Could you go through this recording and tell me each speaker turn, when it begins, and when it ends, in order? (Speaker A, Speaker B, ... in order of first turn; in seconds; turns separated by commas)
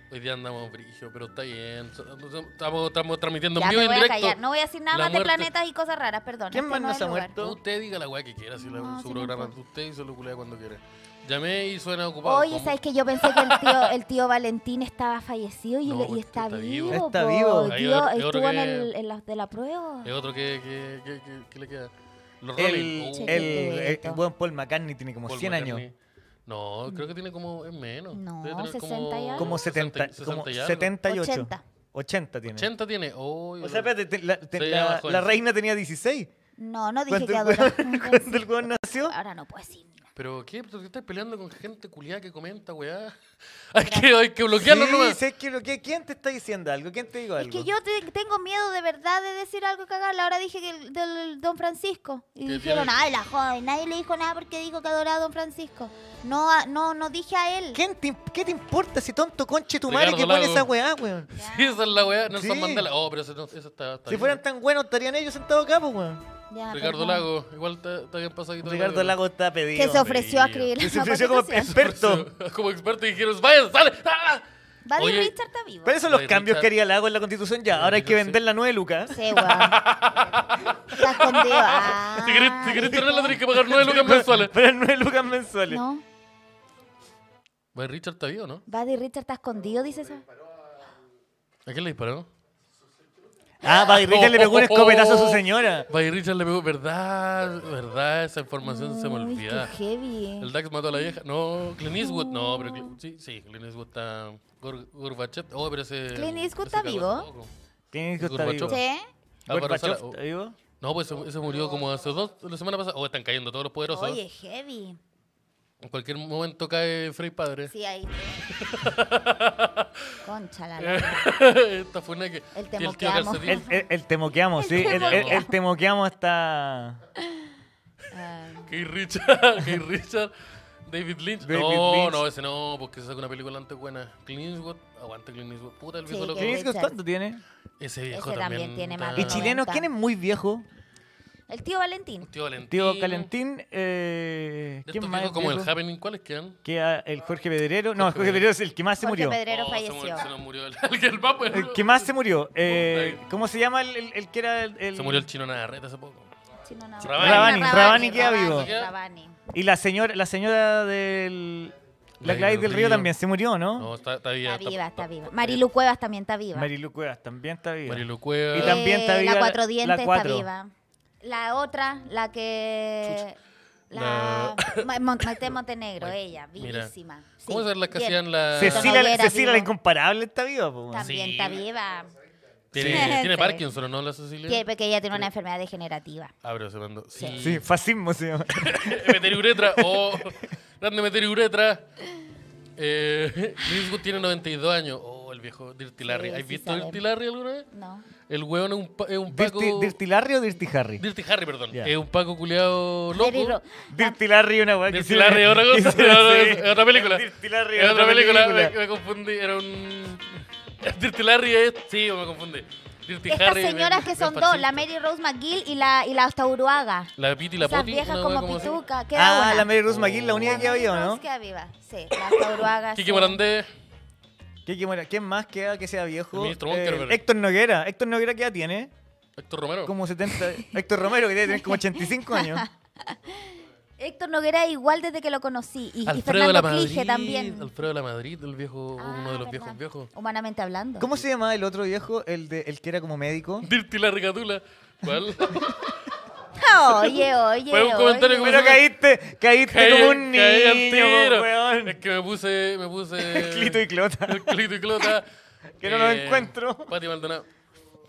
Speaker A: 0.1-4.4, Speaker B: 3.6-7.3, Speaker A: 4.9-5.5, Speaker C: 6.5-7.6, Speaker A: 7.4-13.9, Speaker B: 8.6-9.5, Speaker B: 12.2-20.1, Speaker A: 15.8-17.0, Speaker C: 16.9-17.7, Speaker A: 17.6-18.9, Speaker A: 20.0-23.6, Speaker C: 22.6-25.9, Speaker B: 23.2-24.2, Speaker A: 25.3-25.9, Speaker A: 26.5-30.9, Speaker B: 28.1-29.6, Speaker C: 29.4-32.7, Speaker B: 31.0-31.6, Speaker A: 32.5-33.9, Speaker C: 33.6-36.3, Speaker A: 34.5-35.4, Speaker B: 36.6-38.5, Speaker C: 37.1-39.1, Speaker B: 39.0-40.0, Speaker A: 40.2-43.1, Speaker A: 43.7-45.2, Speaker B: 43.8-44.1, Speaker C: 44.5-47.7, Speaker B: 47.4-57.8, Speaker A: 52.5-52.9, Speaker C: 57.7-61.3, Speaker A: 59.9-60.7, Speaker A: 61.3-64.4, Speaker B: 61.4-61.9, Speaker C: 62.3-62.9, Speaker C: 64.1-66.2, Speaker B: 66.5-67.2, Speaker A: 66.7-69.2, Speaker C: 68.6-70.1, Speaker B: 69.8-71.7, Speaker A: 69.8-70.7, Speaker C: 70.8-72.3, Speaker A: 71.5-74.5, Speaker B: 74.9-76.0, Speaker A: 75.0-75.3, Speaker C: 75.8-79.2, Speaker A: 76.1-76.7, Speaker A: 77.7-78.4, Speaker B: 79.1-79.8, Speaker A: 79.3-84.6, Speaker B: 80.9-83.4, Speaker C: 82.8-85.8, Speaker B: 85.7-86.0, Speaker A: 87.7-88.6, Speaker B: 88.7-90.2, Speaker A: 91.7-92.3, Speaker C: 93.6-95.9, Speaker A: 94.0-99.7, Speaker B: 98.6-100.5, Speaker A: 100.4-107.5, Speaker B: 102.0-103.0, Speaker B: 106.1-107.3, Speaker C: 107.9-108.8, Speaker A: 108.2-108.8, Speaker B: 108.7-109.1, Speaker A: 109.5-110.2, Speaker C: 109.5-110.6, Speaker A: 110.8-114.2, Speaker B: 113.9-115.0, Speaker A: 115.8-117.7, Speaker B: 117.7-118.4, Speaker A: 118.5-120.2, Speaker B: 120.2-121.3, Speaker A: 120.8-123.7, Speaker B: 122.5-123.8, Speaker C: 123.5-127.0, Speaker B: 124.6-125.5, Speaker A: 124.7-125.4, Speaker B: 128.1-128.7, Speaker A: 128.7-130.3, Speaker A: 130.8-136.6, Speaker C: 131.4-132.2, Speaker B: 136.1-137.0, Speaker C: 136.4-137.4, Speaker A: 137.8-139.5, Speaker B: 138.1-139.9, Speaker C: 139.2-140.7, Speaker B: 141.5-142.3, Speaker A: 142.3-143.3, Speaker C: 142.7-145.7, Speaker A: 144.9-146.6, Speaker C: 146.7-149.4, Speaker A: 148.0-148.5, Speaker B: 149.0-150.3, Speaker A: 149.5-152.1, Speaker C: 151.5-155.3, Speaker A: 152.6-153.2, Speaker A: 154.9-156.3, Speaker B: 156.7-159.4, Speaker A: 157.0-158.9, Speaker C: 157.1-158.7, Speaker C: 159.5-163.9, Speaker A: 162.2-163.1, Speaker A: 163.8-165.6, Speaker B: 164.4-166.7, Speaker C: 166.5-170.5, Speaker A: 167.9-168.8, Speaker B: 168.6-173.4, Speaker B: 173.9-179.7, Speaker A: 173.9-179.0, Speaker C: 178.5-181.1, Speaker B: 180.9-182.1, Speaker A: 181.0-181.7, Speaker A: 182.7-185.3, Speaker C: 182.8-183.2, Speaker B: 182.8-183.6, Speaker B: 184.5-186.3, Speaker A: 186.4-187.7, Speaker B: 187.2-187.4, Speaker C: 187.4-190.2, Speaker A: 188.6-191.9, Speaker A: 192.8-197.7, Speaker B: 196.1-197.0, Speaker B: 197.7-198.1, Speaker A: 198.3-200.0, Speaker C: 199.3-201.0, Speaker A: 201.0-203.6, Speaker B: 203.2-204.2, Speaker C: 203.9-208.8, Speaker A: 204.9-214.8, Speaker B: 213.3-219.7, Speaker A: 217.2-218.8, Speaker C: 219.1-221.2, Speaker A: 219.8-220.7, Speaker B: 220.4-223.4, Speaker A: 222.3-223.7, Speaker C: 224.7-228.9, Speaker A: 226.3-227.2, Speaker A: 229.4-229.9, Speaker C: 229.8-232.7, Speaker B: 231.5-237.7, Speaker A: 236.1-240.1, Speaker B: 239.0-241.1, Speaker C: 241.0-243.7, Speaker A: 243.6-246.1, Speaker B: 246.6-248.6, Speaker A: 246.9-248.9, Speaker C: 248.4-252.0, Speaker A: 249.7-255.3, Speaker C: 253.2-254.6, Speaker C: 255.8-256.9, Speaker A: 255.8-257.5